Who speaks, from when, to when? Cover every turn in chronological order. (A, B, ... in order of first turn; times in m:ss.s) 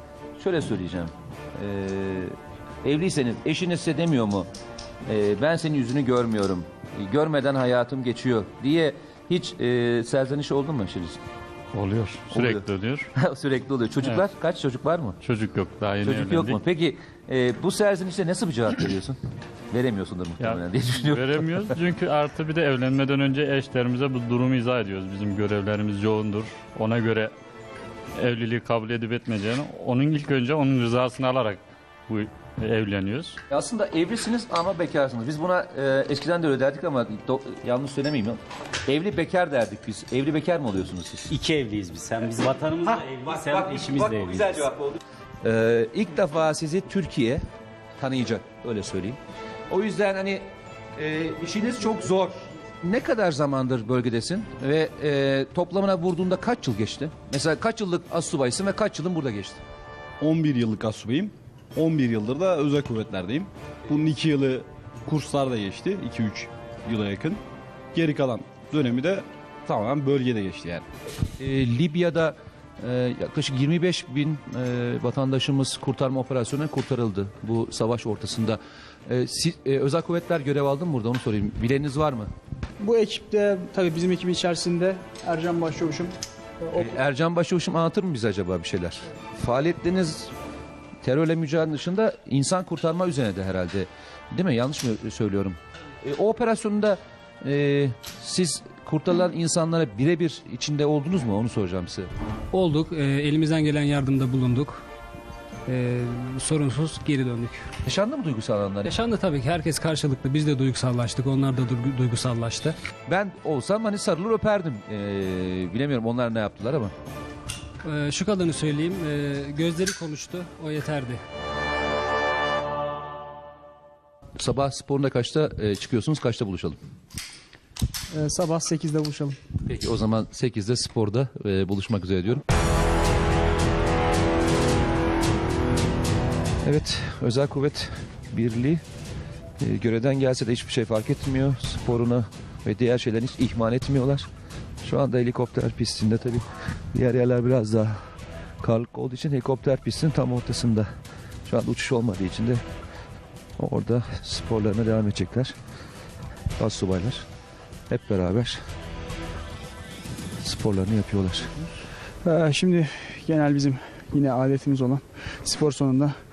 0:00.4-0:04.5 A
0:05.1-0:11.2 A
0:11.7-0:13.1 B
0:12.3-0:15.2 A
0:15.2-0:16.6 B
0:16.0-0:19.2 A
0:19.7-0:21.6 A
0:20.4-0:27.3 B
0:28.2-0:33.4 B
0:33.5-0:41.3 A
0:41.3-0:44.7 C
0:42.8-0:47.4 A
0:48.0-0:50.4 A
0:51.0-0:59.6 A
1:00.2-1:07.4 D
1:07.9-1:10.8 D
1:11.4-1:22.3 A
1:22.8-1:26.9 E
1:26.7-1:30.3 A
1:31.0-1:42.1 A
1:42.5-1:44.9 F
1:45.6-1:47.7 F
1:47.8-1:48.9 A
1:48.8-1:52.8 F
1:53.1-1:56.9 A
1:57.8-2:01.2 F
2:04.4-2:06.8 A
2:08.1-2:09.4 E
2:09.6-2:12.4 A
2:16.6-2:18.8 A
2:19.6-2:24.3 A
2:24.8-2:28.0 A
2:28.6-2:30.9 A
2:31.5-2:32.6 A
2:33.6-2:35.5 A
2:36.6-2:37.2 A
2:37.9-2:38.6 A
2:40.4-2:41.8 A
2:42.2-2:46.2 E